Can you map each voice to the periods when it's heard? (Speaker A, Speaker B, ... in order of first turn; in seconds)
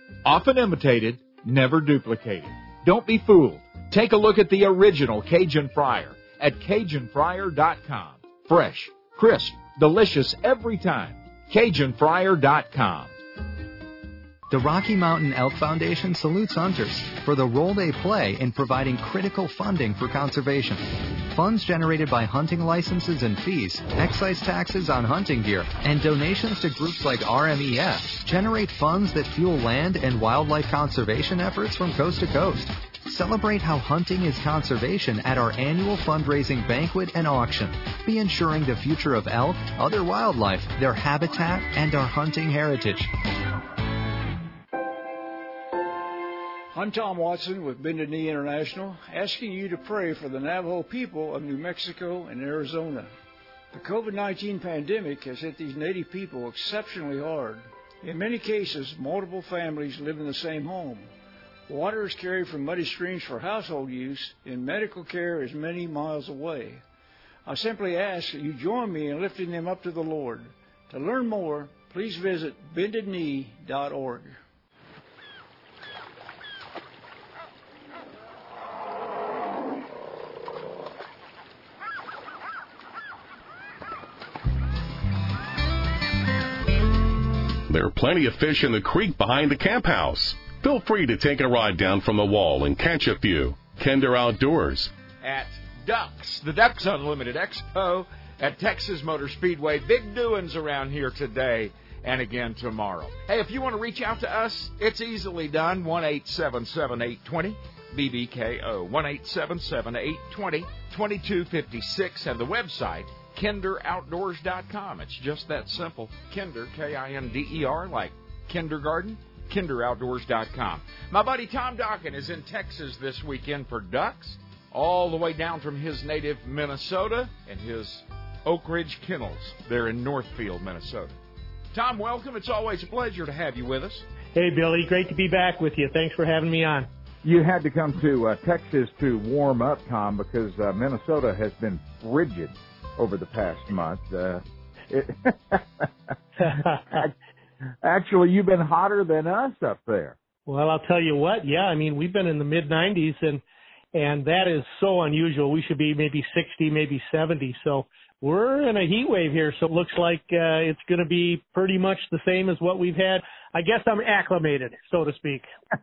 Speaker A: 0.2-13.1, 95.2-131.2, 131.7-134.1
Speaker B: 14.5-43.1
Speaker C: 46.7-53.1, 53.7-61.1, 61.7-66.8, 67.5-74.4
Speaker D: 87.7-94.9
Speaker E: 134.3-136.9, 146.4-147.0, 150.5-153.4, 153.9-165.5
Speaker F: 137.2-145.9, 147.8-150.2